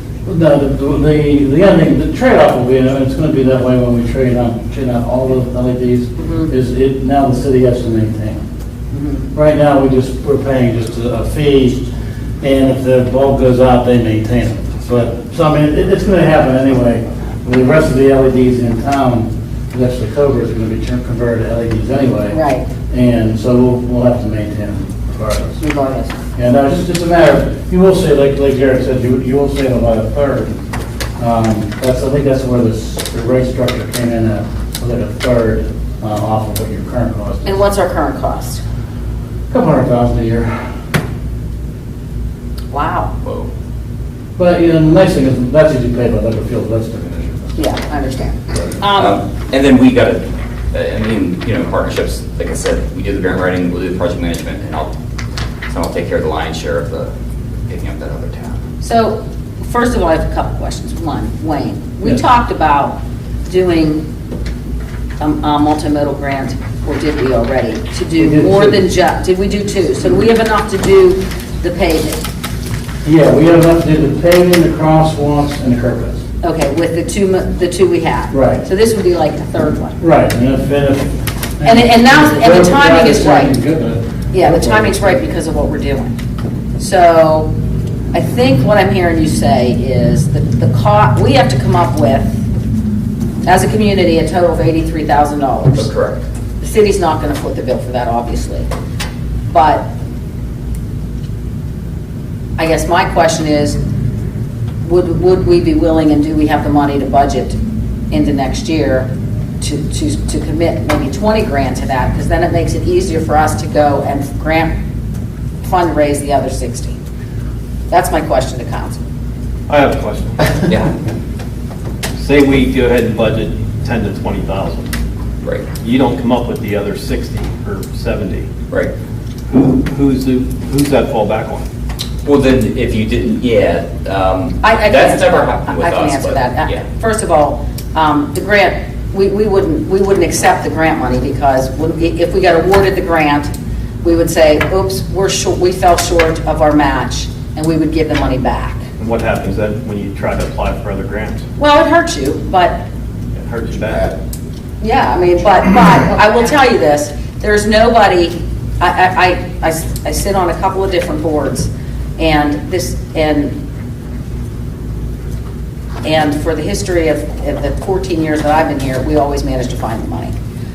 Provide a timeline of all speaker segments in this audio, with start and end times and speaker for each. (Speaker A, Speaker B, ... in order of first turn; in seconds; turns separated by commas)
Speaker A: 0.3-8.4, Speaker B: 6.2-6.5, Speaker B: 8.9-9.3, Speaker A: 9.3-11.8, Speaker A: 12.4-22.4, Speaker B: 22.3-22.7, Speaker A: 22.9-25.6, Speaker B: 25.6-26.2, Speaker A: 26.4-30.6, Speaker A: 31.2-37.6, Speaker B: 37.4-38.6, Speaker A: 39.5-40.7, Speaker B: 42.7-43.1, Speaker C: 43.2-43.5, Speaker A: 44.4-47.6, Speaker B: 47.6-49.2, Speaker C: 48.9-54.9, Speaker C: 55.7-57.1, Speaker C: 57.7-58.6, Speaker B: 58.8-64.1, Speaker B: 65.2-72.2, Speaker A: 68.2-68.8, Speaker A: 73.0-76.2, Speaker B: 76.4-80.0, Speaker A: 78.3-78.6, Speaker A: 80.0-85.2, Speaker B: 81.6-83.5, Speaker B: 84.3-86.2, Speaker B: 86.8-87.5, Speaker B: 88.1-92.4, Speaker B: 93.5-95.9, Speaker C: 95.7-96.2, Speaker B: 96.6-98.7, Speaker B: 99.5-99.9, Speaker B: 102.6-103.8, Speaker B: 104.8-107.6, Speaker B: 108.1-109.1, Speaker B: 109.6-114.8, Speaker B: 115.6-117.0, Speaker B: 117.9-119.0, Speaker D: 119.7-120.6, Speaker C: 120.7-121.0, Speaker D: 122.2-124.9, Speaker D: 125.8-128.5, Speaker D: 129.5-131.7, Speaker C: 132.3-136.8, Speaker B: 134.6-143.5, Speaker B: 144.0-148.8, Speaker D: 149.0-151.5, Speaker B: 151.6-152.8, Speaker D: 153.3-154.2, Speaker B: 154.8-163.6, Speaker B: 166.0-170.3